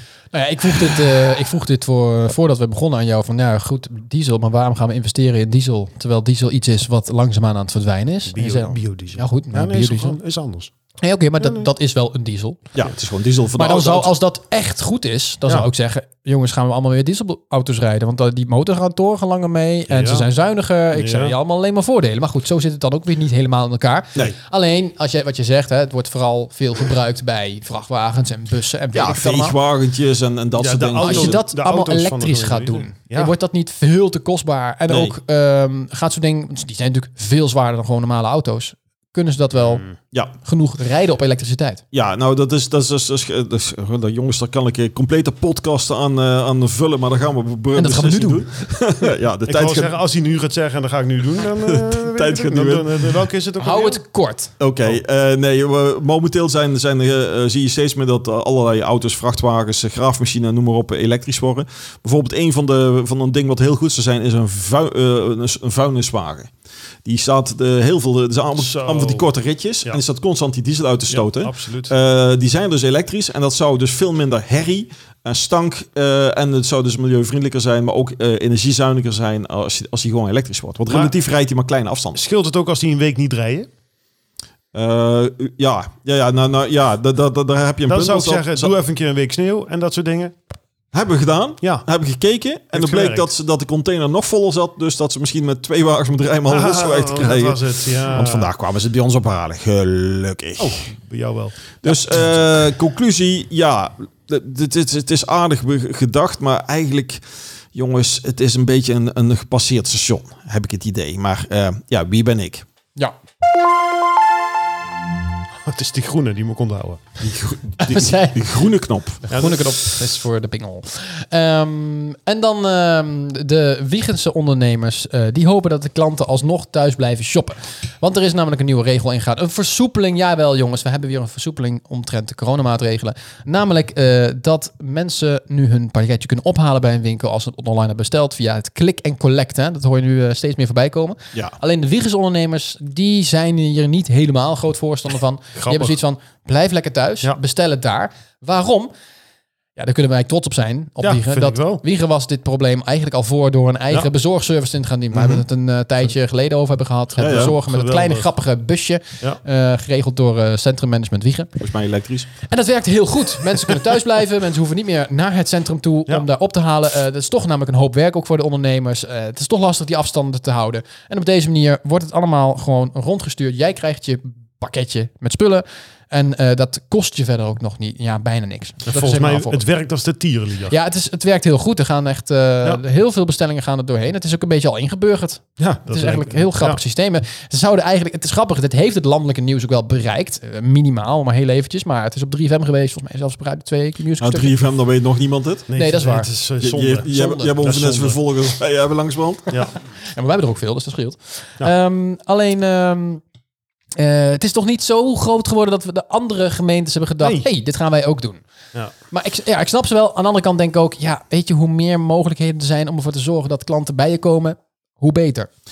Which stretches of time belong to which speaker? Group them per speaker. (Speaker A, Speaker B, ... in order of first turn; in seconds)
Speaker A: 0.3-10.2, 11.0-12.6, 13.6-29.6, 31.0-39.8, 40.4-41.8, 47.8-48.5, 53.6-54.5, 117.8-118.4, 119.2-148.9, 149.8-161.5, 162.5-179.6, 180.7-194.6, 195.8-196.3, 200.1-203.2, 204.0-208.4, 209.1-215.5
Speaker B: 8.3-10.7, 11.4-11.7, 19.9-20.3, 20.9-21.4, 30.6-33.3, 39.6-40.0, 49.5-54.0, 68.6-69.3, 71.1-71.9, 82.2-83.7, 87.9-90.3, 91.6-91.9, 92.7-93.3, 96.5-98.5, 100.6-102.4, 115.7-117.0, 119.3-119.6, 145.6-146.0, 151.0-151.8, 155.2-155.4, 157.2-158.3, 178.9-180.8, 185.6-186.8, 195.7-198.2, 207.2-207.5
Speaker C: 12.8-14.1, 28.9-31.4, 34.9-35.1, 41.9-49.9, 51.6-53.2, 54.6-66.5, 67.0-82.2, 84.7-88.7, 90.9-100.8, 101.8-112.7, 117.2-119.2, 157.2-157.6, 161.6-162.3, 194.2-195.7, 196.6-199.5